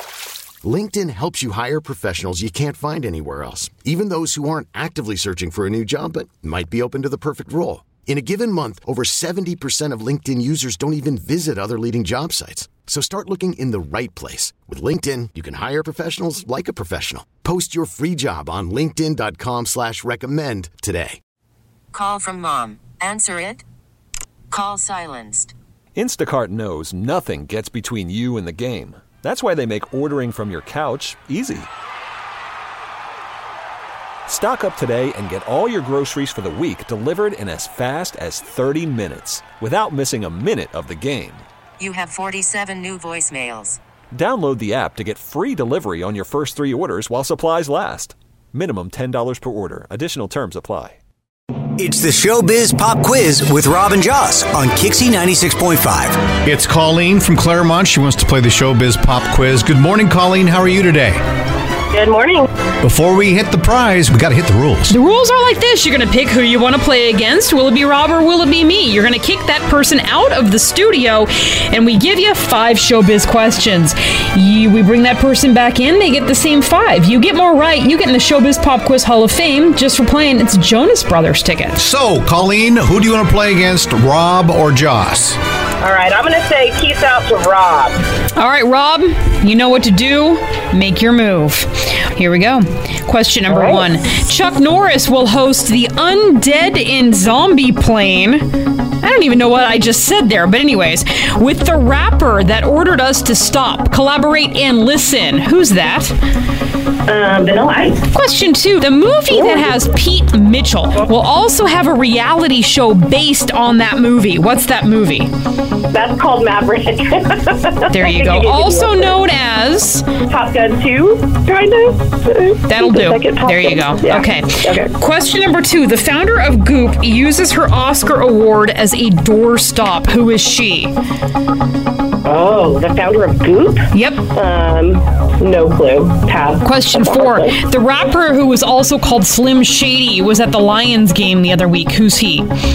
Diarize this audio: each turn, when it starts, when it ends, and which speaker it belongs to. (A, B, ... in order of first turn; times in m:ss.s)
0:00.6-0:21.2 A
0:21.9-0:23.6 B
0:24.5-0:25.5 B
0:26.0-0:31.7 C
0:34.3-0:41.4 C
0:41.8-0:43.8 B
0:44.1-0:51.0 C
0:51.8-0:56.3 D
0:56.3-1:01.2 E
1:01.9-1:02.5 F
1:02.8-1:05.0 E
1:04.9-1:21.8 G
1:21.8-1:25.4 E
1:25.8-1:28.0 F
1:28.4-1:46.1 G
1:33.5-1:33.9 F
1:47.0-1:48.0 F
1:48.1-1:55.3 G
1:49.3-1:49.8 F
1:55.9-1:59.2 F
1:57.9-2:00.1 G
2:00.3-2:04.9 F
2:02.7-2:10.9 G
2:12.2-2:17.6 F
2:13.9-2:14.3 G
2:16.6-2:22.5 G